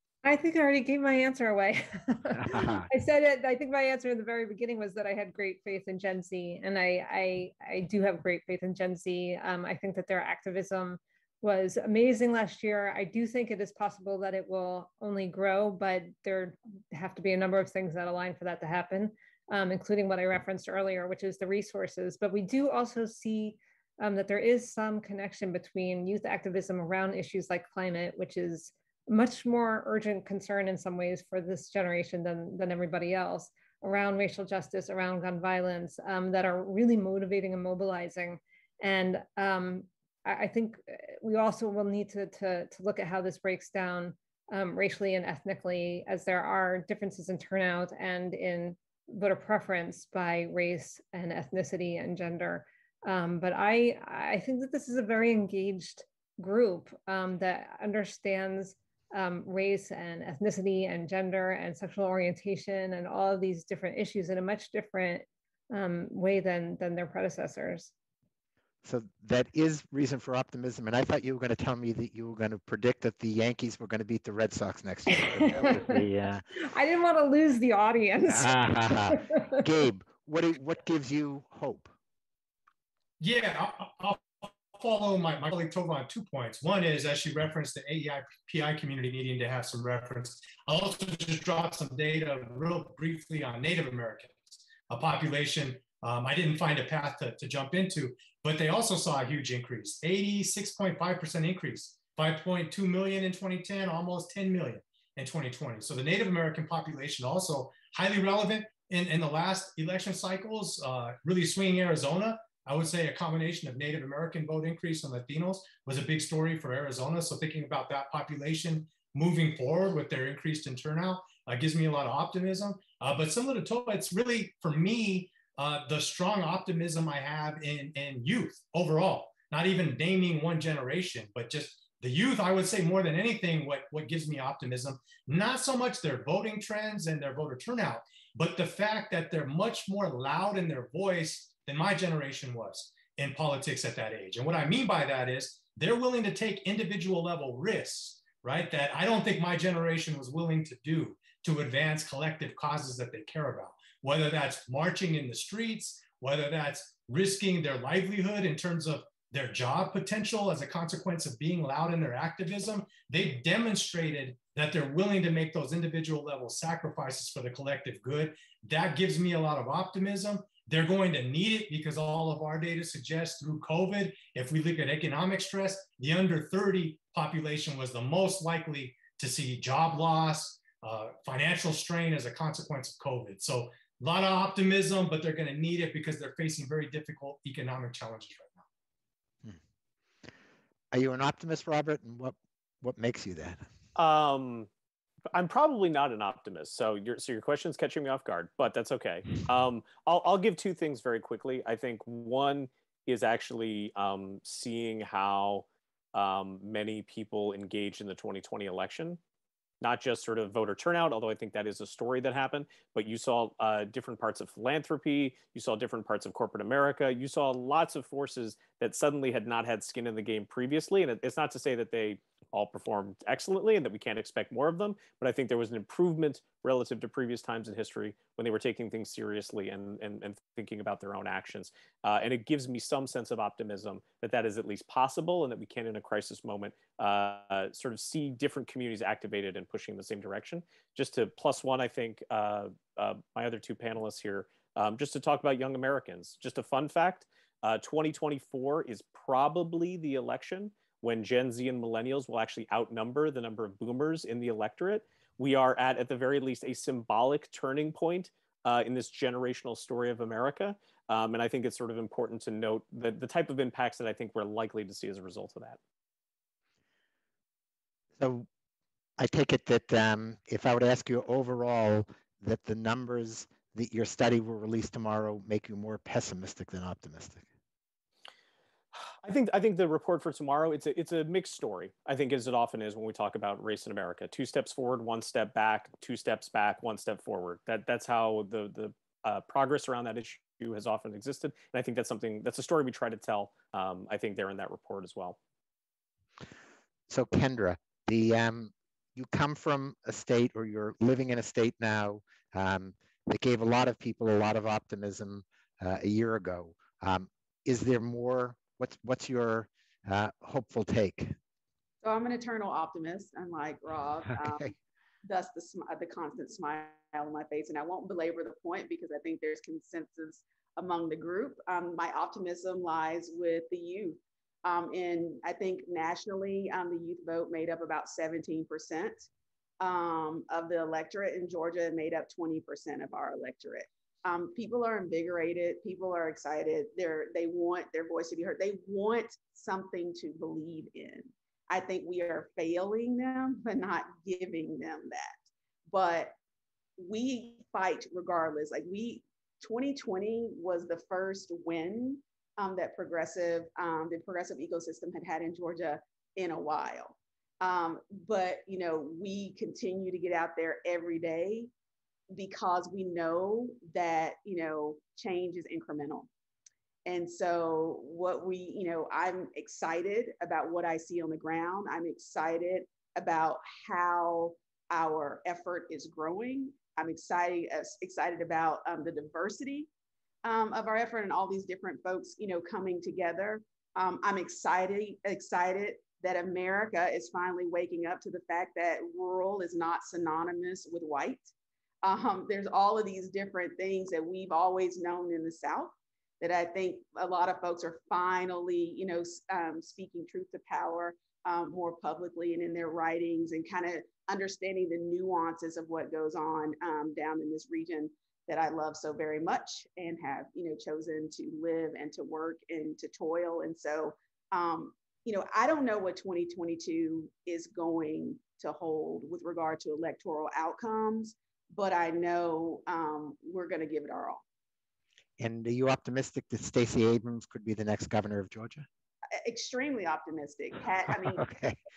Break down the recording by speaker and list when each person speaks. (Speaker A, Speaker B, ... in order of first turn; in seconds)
Speaker A: 0.2-67.9, 75.1-76.0, 76.5-79.5
Speaker B: 2.4-2.9, 68.8-76.4, 78.3-81.9, 190.9-193.7, 268.2-268.5, 269.2-277.4, 297.1-311.4, 314.4-314.7, 425.4-428.9, 431.4-431.8
Speaker C: 83.2-188.7
Speaker D: 193.9-194.7, 195.3-209.2, 209.8-265.8, 278.9-295.4
Speaker E: 312.0-329.3, 329.8-346.4, 347.0-361.7, 362.3-366.3, 367.0-379.9, 380.4-391.5, 392.0-424.4, 429.4-431.5